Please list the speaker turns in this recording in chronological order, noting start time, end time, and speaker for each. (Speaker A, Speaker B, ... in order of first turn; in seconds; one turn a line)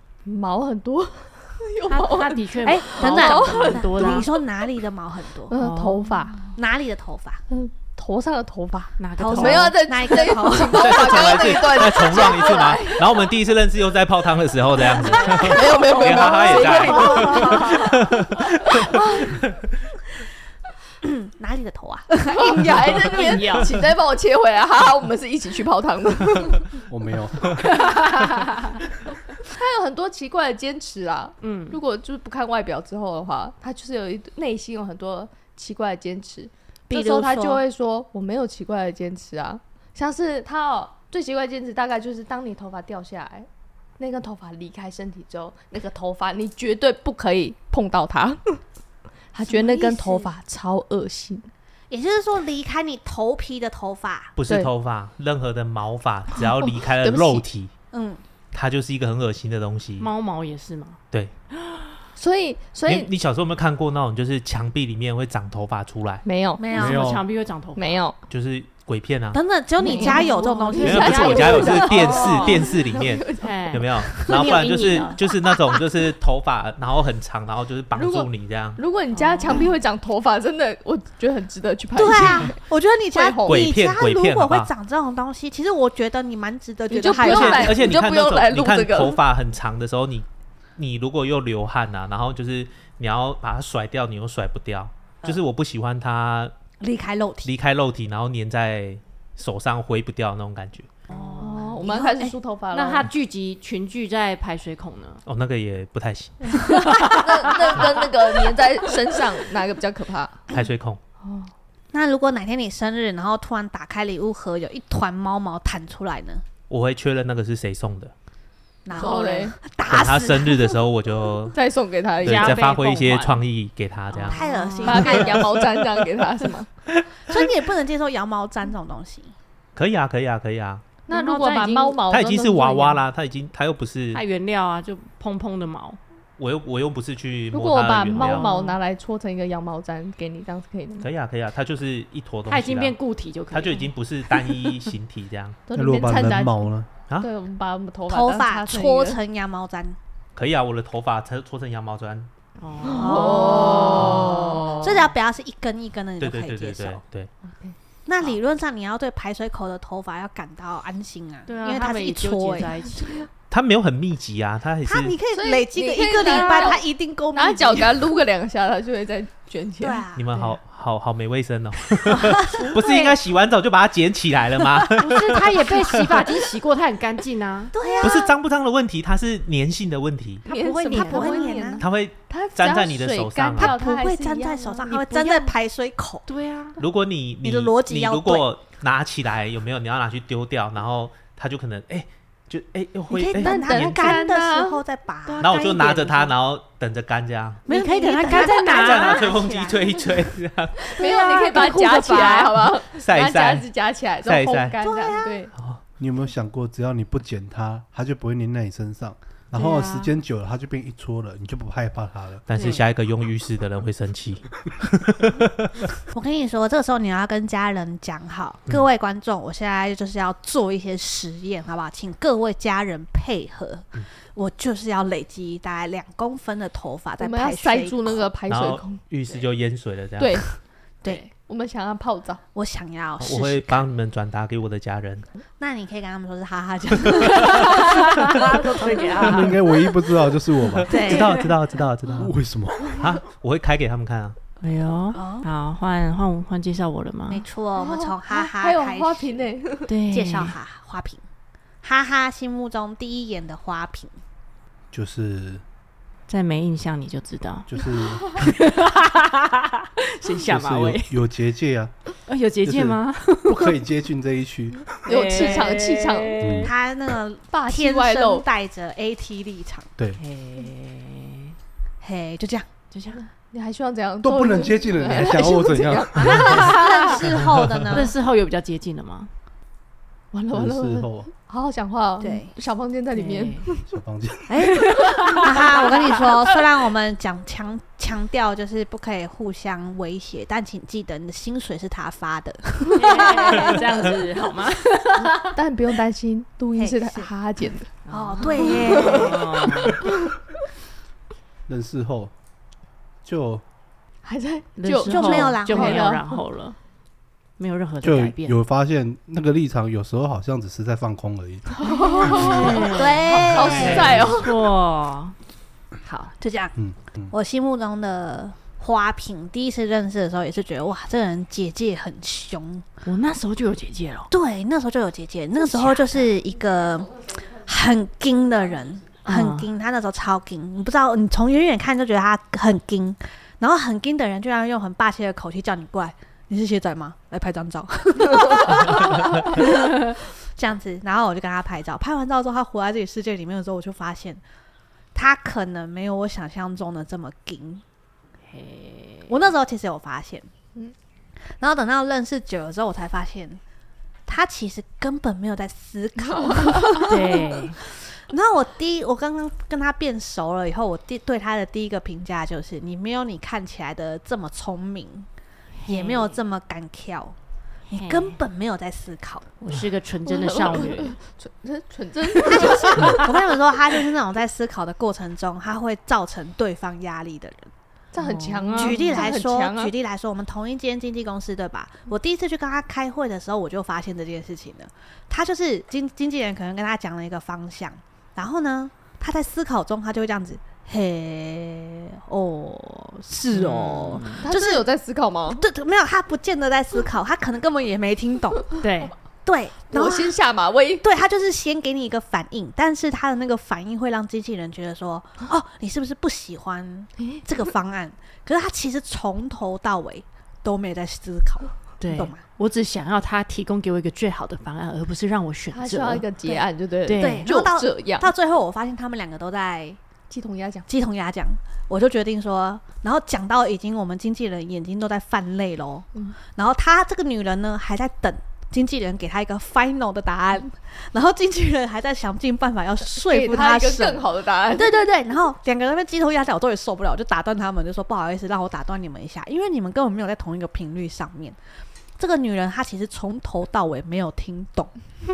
Speaker A: 0.2-4.4
Speaker B: 1.9-4.3
Speaker C: 2.6-5.5
Speaker A: 5.5-6.4
Speaker B: 5.5-6.3
Speaker C: 6.5-7.4
Speaker A: 7.5-13.3
Speaker B: 9.0-9.8
Speaker C: 9.2-12.4
Speaker D: 10.7-19.5
Speaker A: 14.9-18.1
Speaker B: 15.0-17.6
Speaker C: 16.7-17.8
Speaker A: 18.6-19.4
Speaker C: 21.0-22.8
Speaker A: 22.2-26.8
Speaker B: 22.7-23.7
Speaker E: 26.9-27.6
Speaker B: 27.8-28.7
Speaker A: 29.4-43.5
Speaker B: 31.4-31.8
Speaker C: 36.9-37.6
Speaker A: 44.0-48.6
Speaker A: 49.3-51.5
Speaker C: 49.5-50.3
Speaker C: 51.9-54.3
Speaker D: 54.4-57.7
Speaker A: 56.4-57.5
Speaker C: 57.9-58.2
Speaker D: 58.5-60.1
Speaker B: 60.0-61.0
Speaker B: 61.6-62.0
Speaker A: 62.1-63.1
Speaker D: 62.9-66.2
Speaker A: 66.2-66.7
Speaker C: 66.6-67.2
Speaker B: 66.7-68.0
Speaker E: 66.7-67.2
Speaker A: 67.8-68.2
Speaker D: 68.3-69.4
Speaker C: 69.3-72.2
Speaker B: 69.8-72.7
Speaker A: 69.8-74.6
Speaker D: 70.8-78.8
Speaker B: 73.4-75.2
Speaker A: 77.9-82.6
Speaker B: 79.1-79.7
Speaker C: 82.0-87.9
Speaker A: 83.1-83.6
Speaker D: 83.4-84.7
Speaker A: 86.9-89.2
Speaker D: 87.2-90.2
Speaker D: 90.8-96.5
Speaker C: 96.8-97.5
Speaker D: 97.4-100.9
Speaker B: 101.1-101.8
Speaker A: 101.1-103.1
Speaker C: 101.8-102.3
Speaker B: 102.7-105.2
Speaker D: 105.2-106.8
Speaker A: 106.6-110.4
Speaker B: 106.7-108.1
Speaker C: 107.0-107.5
Speaker D: 107.5-107.8
Speaker D: 110.5-111.0
Speaker A: 111.2-111.5
Speaker C: 111.9-116.4
Speaker D: 116.7-118.1
Speaker C: 118.8-120.8
Speaker B: 118.9-119.4
Speaker A: 118.9-119.5
Speaker D: 119.8-121.6
Speaker A: 121.5-122.7
Speaker D: 122.2-125.5
Speaker B: 122.2-123.4
Speaker B: 124.1-125.2
Speaker C: 124.3-125.5
Speaker A: 124.8-126.7
Speaker D: 126.9-127.4
Speaker C: 127.3-129.3
Speaker D: 129.7-130.8
Speaker A: 131.1-133.0
Speaker B: 131.1-132.0
Speaker D: 132.1-134.2
Speaker B: 134.1-136.0
Speaker D: 136.4-138.5
Speaker A: 137.5-141.1
Speaker B: 138.2-138.8
Speaker D: 141.0-143.0
Speaker B: 142.5-143.9
Speaker D: 143.5-145.6
Speaker A: 145.7-146.7
Speaker E: 145.7-146.9
Speaker A: 147.2-149.2
Speaker C: 148.1-150.0
Speaker D: 150.3-152.3
Speaker B: 152.6-155.1
Speaker A: 152.8-154.9
Speaker C: 152.9-157.0
Speaker D: 156.2-157.3
Speaker A: 157.5-157.7
Speaker C: 158.1-163.2
Speaker B: 161.5-163.2
Speaker D: 163.5-165.2
Speaker C: 164.8-168.0
Speaker A: 165.3-170.0
Speaker B: 166.3-166.7
Speaker C: 169.8-170.3
Speaker D: 170.2-175.8
Speaker C: 172.1-173.1
Speaker B: 175.0-177.7
Speaker C: 177.7-178.3
Speaker D: 178.0-180.4
Speaker A: 180.4-185.5
Speaker B: 180.4-181.7
Speaker C: 180.9-181.8
Speaker D: 181.8-183.8
Speaker C: 183.6-186.2
Speaker B: 186.3-186.8
Speaker D: 186.8-194.2
Speaker C: 187.4-188.4
Speaker C: 193.1-196.0
Speaker A: 193.3-194.8
Speaker B: 195.2-196.3
Speaker D: 195.4-197.6
Speaker C: 197.7-200.2
Speaker B: 197.7-199.4
Speaker D: 198.3-201.0
Speaker A: 200.8-205.5
Speaker B: 201.0-202.6
Speaker C: 201.0-202.5
Speaker D: 202.8-203.7
Speaker D: 204.2-204.8
Speaker C: 204.8-205.4
Speaker D: 205.5-205.8
Speaker E: 206.0-212.4
Speaker B: 209.5-210.1
Speaker D: 212.5-215.9
Speaker B: 212.5-212.8
Speaker C: 216.1-228.3
Speaker A: 227.2-229.0
Speaker D: 228.5-230.4
Speaker A: 230.2-230.4
Speaker B: 231.0-231.3
Speaker A: 231.3-232.4
Speaker C: 232.5-233.8
Speaker D: 233.2-235.3
Speaker C: 235.6-239.1
Speaker B: 237.5-239.8
Speaker E: 239.2-240.9
Speaker D: 240.8-244.4
Speaker C: 240.9-241.4
Speaker E: 242.2-243.0
Speaker B: 244.6-247.4
Speaker C: 245.1-245.4
Speaker C: 247.3-249.4
Speaker A: 247.8-249.9
Speaker B: 249.9-250.6
Speaker C: 250.1-251.2
Speaker C: 251.8-254.1
Speaker E: 254.9-255.6
Speaker B: 256.3-261.2
Speaker E: 257.7-258.4
Speaker E: 260.4-261.9
Speaker B: 262.2-263.8
Speaker E: 262.6-264.9
Speaker B: 265.0-266.7
Speaker A: 265.0-266.4
Speaker E: 266.4-266.7
Speaker C: 266.6-269.9
Speaker A: 267.5-268.4
Speaker B: 270.2-271.6
Speaker C: 272.0-272.7
Speaker B: 272.9-273.2
Speaker A: 273.1-276.6
Speaker E: 274.2-276.5
Speaker C: 276.1-278.1
Speaker B: 276.4-277.2
Speaker B: 277.9-279.3
Speaker A: 280.3-283.9
Speaker E: 280.5-281.3
Speaker C: 282.2-282.5
Speaker B: 283.1-283.7
Speaker E: 283.9-284.6
Speaker B: 284.5-286.5
Speaker A: 284.9-285.4
Speaker C: 285.3-293.8
Speaker B: 292.9-295.5
Speaker A: 295.2-297.9
Speaker C: 296.8-297.3
Speaker B: 298.1-300.0
Speaker C: 298.1-299.5
Speaker A: 298.6-300.1
Speaker E: 301.7-302.3
Speaker E: 303.2-303.6
Speaker A: 304.2-306.4
Speaker B: 304.8-306.8
Speaker C: 305.1-306.1
Speaker B: 307.6-308.6
Speaker E: 308.0-312.5
Speaker A: 311.7-314.5
Speaker B: 312.2-315.3
Speaker C: 312.9-314.3
Speaker D: 313.6-314.1
Speaker B: 316.0-316.3
Speaker C: 316.4-316.7
Speaker E: 316.8-317.3
Speaker C: 317.3-322.8
Speaker B: 323.0-324.3
Speaker C: 324.3-344.4
Speaker B: 325.6-326.2
Speaker B: 329.2-329.7
Speaker C: 345.1-347.8
Speaker B: 348.5-349.4
Speaker C: 349.3-350.5
Speaker C: 351.6-353.6
Speaker C: 354.3-365.3
Speaker A: 356.3-357.1
Speaker B: 356.9-357.8
Speaker B: 365.8-366.4
Speaker C: 365.9-367.3
Speaker B: 367.9-368.4
Speaker C: 367.9-369.5
Speaker B: 369.6-371.1
Speaker A: 370.2-373.2
Speaker C: 372.4-377.7
Speaker A: 378.1-379.9
Speaker B: 378.2-379.2
Speaker C: 378.8-394.8
Speaker B: 393.5-394.4
Speaker A: 394.4-395.6
Speaker C: 395.5-398.8
Speaker B: 398.8-399.1
Speaker C: 399.4-400.4
Speaker A: 399.9-401.0
Speaker C: 401.0-412.4
Speaker A: 407.2-407.4
Speaker B: 412.0-416.3
Speaker A: 415.7-418.3
Speaker B: 417.1-417.5
Speaker C: 417.2-420.0
Speaker A: 420.3-420.9
Speaker C: 420.9-441.6
Speaker A: 433.1-435.0
Speaker C: 442.2-444.9